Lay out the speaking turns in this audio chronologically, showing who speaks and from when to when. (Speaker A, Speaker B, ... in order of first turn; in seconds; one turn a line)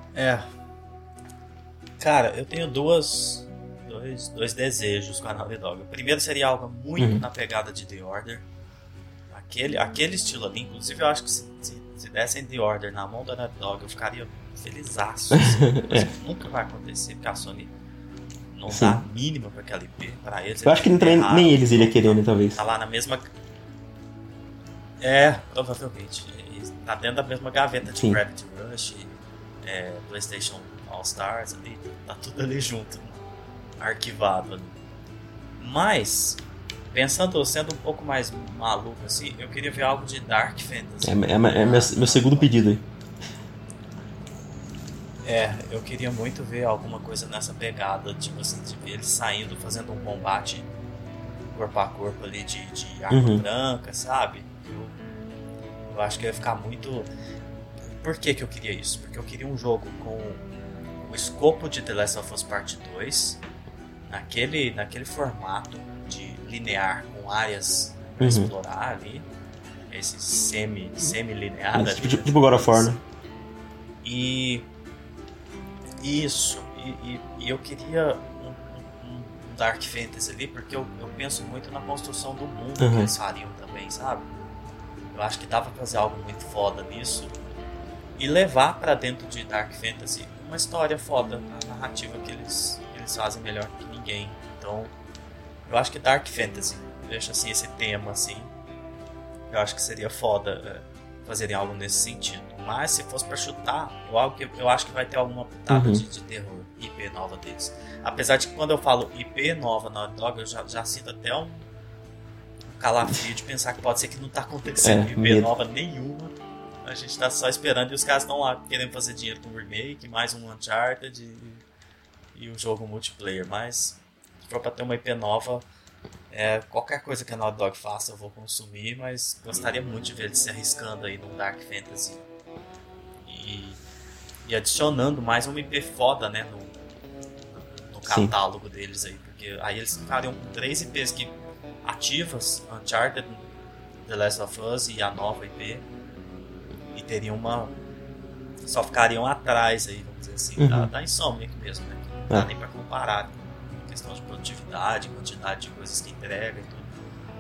Speaker A: 0.1-0.5
Speaker A: 2.0-8.4
Speaker B: 7.0-7.2
Speaker A: 9.3-17.7
Speaker B: 15.3-16.1
Speaker A: 18.5-23.3
Speaker B: 18.7-19.0
Speaker B: 20.6-22.6
Speaker A: 25.0-33.2
Speaker B: 27.9-28.2
Speaker A: 33.8-34.8
Speaker A: 35.6-36.4
Speaker A: 36.9-42.6
Speaker B: 41.0-42.8
Speaker A: 45.2-50.7
Speaker A: 51.5-55.0
Speaker B: 53.1-53.4
Speaker A: 55.9-57.1
Speaker A: 57.9-60.4
Speaker A: 61.0-63.4
Speaker A: 64.1-69.3
Speaker B: 68.2-68.5
Speaker A: 69.9-73.0
Speaker B: 71.7-73.0
Speaker A: 74.0-74.7
Speaker A: 76.0-84.3
Speaker B: 82.8-83.1
Speaker A: 85.1-87.3
Speaker A: 88.2-94.9
Speaker A: 95.7-98.5
Speaker A: 99.5-111.7
Speaker B: 105.7-106.0
Speaker A: 112.7-121.6
Speaker B: 114.8-115.5
Speaker A: 122.3-125.6
Speaker A: 126.3-132.3
Speaker A: 133.3-133.8
Speaker A: 134.4-136.8
Speaker A: 137.6-141.3
Speaker B: 138.1-138.3
Speaker A: 141.8-143.4
Speaker A: 144.1-145.9
Speaker A: 146.9-147.7
Speaker A: 148.7-156.9
Speaker B: 150.6-150.9